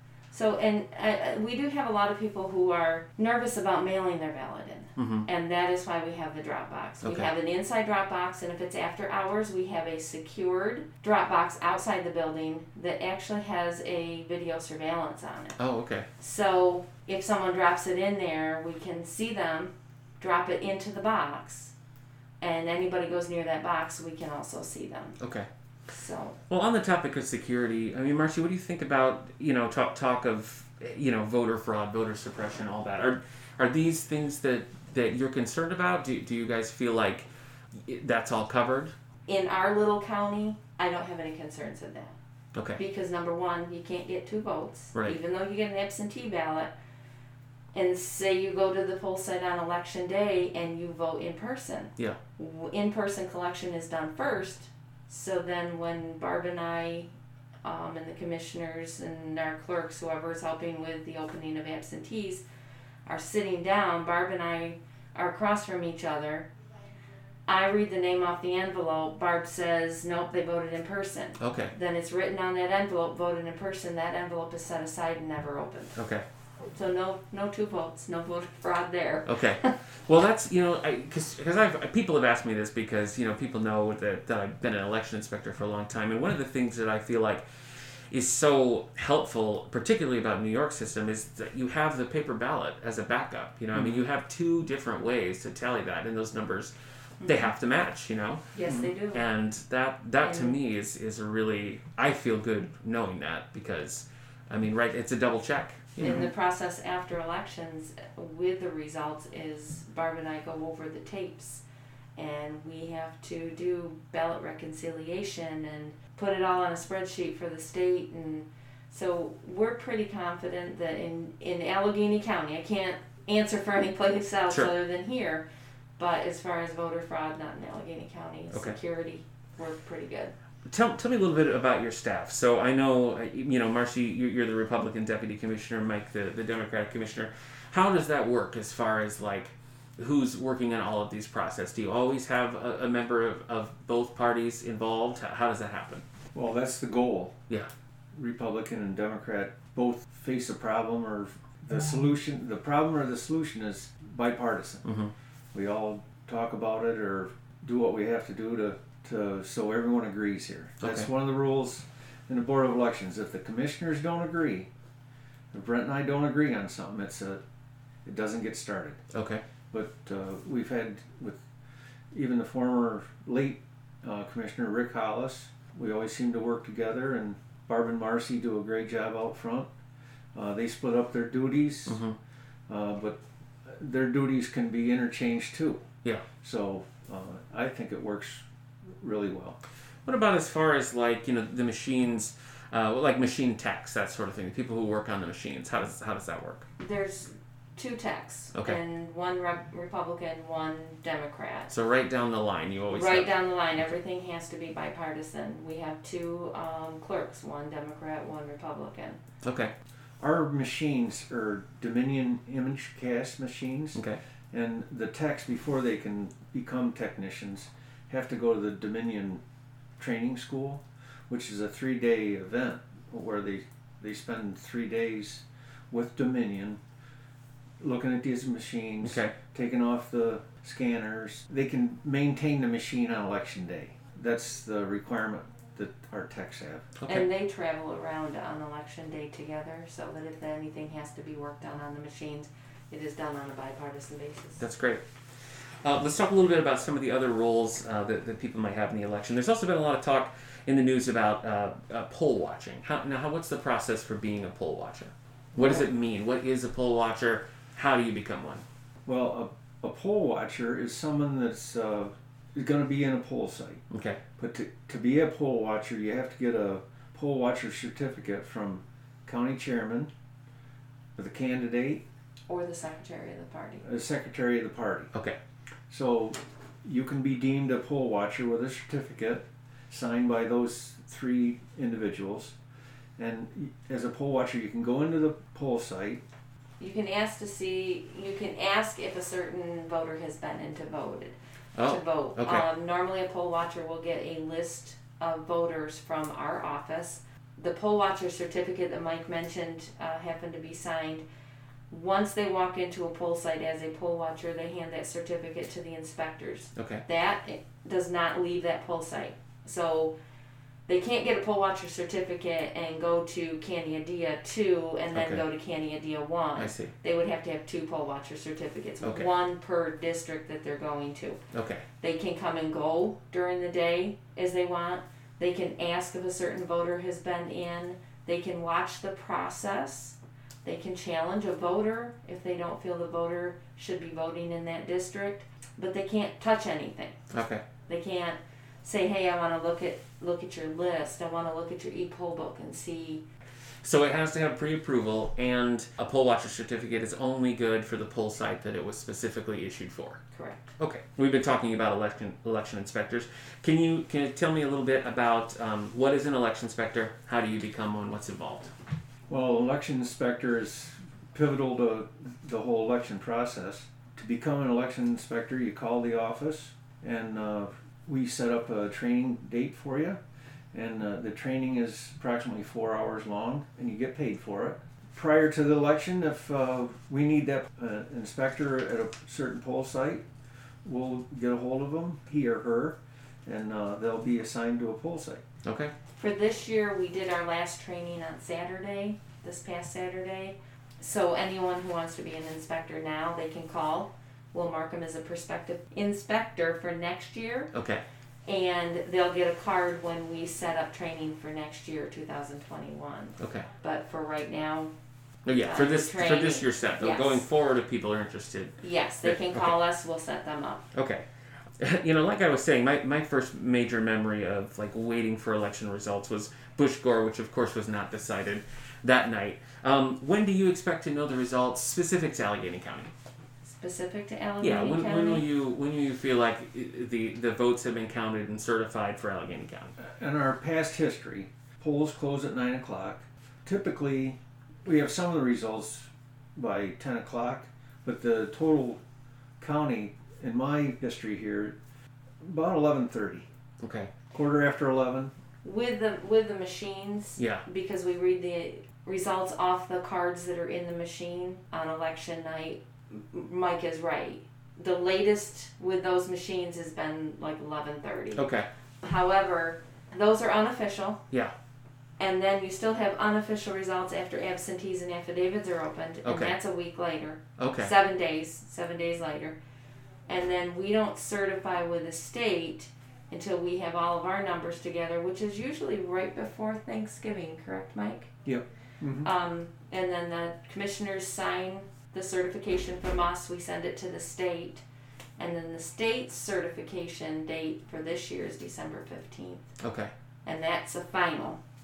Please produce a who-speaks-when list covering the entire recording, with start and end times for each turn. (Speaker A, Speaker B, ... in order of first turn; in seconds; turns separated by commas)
Speaker A: 0.3-15.6, Speaker B: 5.0-5.3, Speaker B: 7.0-7.3, Speaker B: 15.6-16.1, Speaker A: 16.2-21.7, Speaker A: 22.4-25.2, Speaker B: 25.2-25.5, Speaker A: 25.9-26.4, Speaker B: 26.5-38.9, Speaker A: 39.3-42.1, Speaker B: 42.5-42.8, Speaker A: 42.8-46.7, Speaker A: 47.7-57.1, Speaker A: 57.6-62.4, Speaker A: 63.0-66.5, Speaker A: 67.5-76.0, Speaker B: 71.4-71.7, Speaker B: 76.0-76.2, Speaker A: 76.7-79.7, Speaker B: 79.2-87.4, Speaker B: 88.1-96.7, Speaker C: 93.7-94.0, Speaker A: 97.2-97.5, Speaker B: 97.2-106.3, Speaker A: 98.5-99.2, Speaker A: 100.2-100.5, Speaker A: 106.0-111.6, Speaker A: 112.2-125.4, Speaker A: 126.0-130.3, Speaker B: 128.5-128.8, Speaker B: 130.7-146.0, Speaker C: 146.3-147.3, Speaker C: 148.1-154.8, Speaker B: 154.8-155.1, Speaker C: 155.5-164.7, Speaker B: 160.8-161.1, Speaker C: 165.5-167.4, Speaker C: 168.0-169.0, Speaker B: 169.1-169.4, Speaker C: 169.7-171.4, Speaker C: 172.1-179.7, Speaker C: 180.3-182.0, Speaker B: 181.9-182.2, Speaker C: 182.7-185.8, Speaker C: 186.4-189.6, Speaker B: 190.1-196.7, Speaker A: 196.8-201.7, Speaker B: 198.5-198.8, Speaker B: 201.7-203.3, Speaker A: 202.9-209.2, Speaker B: 209.4-209.7, Speaker C: 210.2-219.4, Speaker B: 213.9-214.2, Speaker C: 220.0-226.8, Speaker C: 227.8-236.9, Speaker B: 229.0-229.3, Speaker B: 237.0-237.2, Speaker A: 237.1-244.6, Speaker B: 244.6-245.0, Speaker B: 245.8-258.6, Speaker C: 255.5-255.9, Speaker C: 259.1-263.8, Speaker B: 263.9-264.2, Speaker C: 264.4-270.1, Speaker C: 271.1-272.0, Speaker A: 272.5-273.8, Speaker C: 273.8-275.1, Speaker C: 275.9-282.5, Speaker C: 283.2-286.2, Speaker A: 286.8-301.2, Speaker B: 291.8-292.6, Speaker A: 301.9-310.1, Speaker B: 306.8-307.0, Speaker A: 310.9-321.4, Speaker B: 315.1-315.4, Speaker B: 316.6-316.9, Speaker B: 319.0-319.3, Speaker B: 321.5-321.8, Speaker A: 322.0-337.2, Speaker B: 337.3-337.6, Speaker A: 337.9-343.2, Speaker B: 343.8-350.2, Speaker A: 350.3-350.7, Speaker B: 350.8-358.7, Speaker C: 359.3-370.2, Speaker C: 370.7-380.2, Speaker C: 380.8-385.4, Speaker B: 385.6-385.9, Speaker A: 386.2-397.7, Speaker B: 397.7-398.0, Speaker A: 398.4-404.9, Speaker B: 403.4-403.7, Speaker B: 405.4-409.8, Speaker A: 405.6-407.4, Speaker A: 408.8-410.9, Speaker B: 410.9-411.2, Speaker B: 411.8-423.1, Speaker A: 423.6-425.4, Speaker B: 424.6-429.9, Speaker C: 430.0-439.0, Speaker C: 439.6-441.8, Speaker C: 442.4-443.5, Speaker B: 443.8-444.1, Speaker C: 444.3-445.3, Speaker A: 445.6-458.5, Speaker B: 447.4-447.6, Speaker B: 458.4-458.7, Speaker A: 459.0-461.2, Speaker A: 462.2-469.6, Speaker B: 466.2-466.5, Speaker B: 467.6-467.9, Speaker A: 470.3-478.3, Speaker C: 478.4-479.3, Speaker A: 479.2-484.8, Speaker A: 485.4-489.7, Speaker B: 489.8-490.1, Speaker A: 490.4-491.6